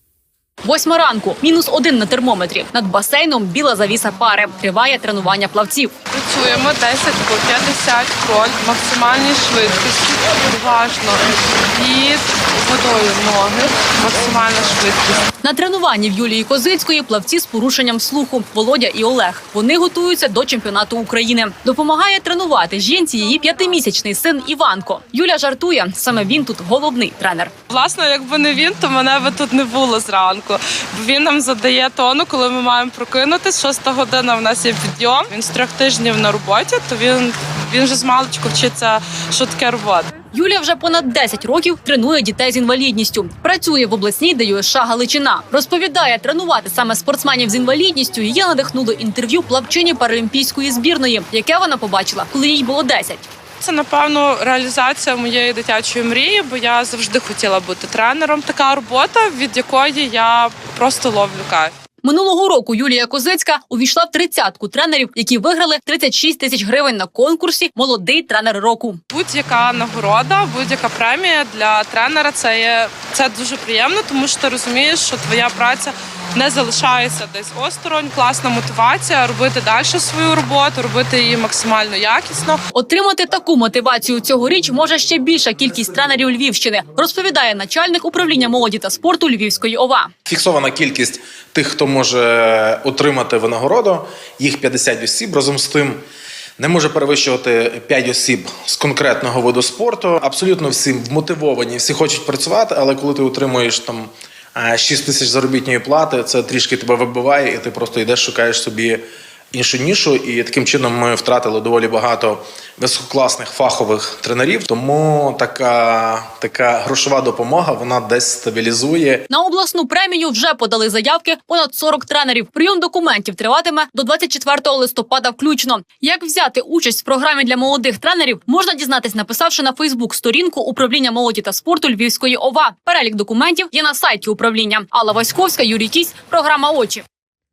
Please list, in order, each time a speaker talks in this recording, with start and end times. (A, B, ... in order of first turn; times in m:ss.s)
0:00.6-0:05.9 A
0:06.1-0:15.2 B
0:15.4-0:27.5 A
0:27.7-0:40.1 B
0:40.3-0:53.3 A
0:53.6-1:01.7 B
1:02.0-1:09.0 A
1:09.1-1:22.6 B
1:22.7-1:30.1 A
1:30.3-1:36.0 C
1:36.6-1:59.3 C
1:59.3-2:17.0 A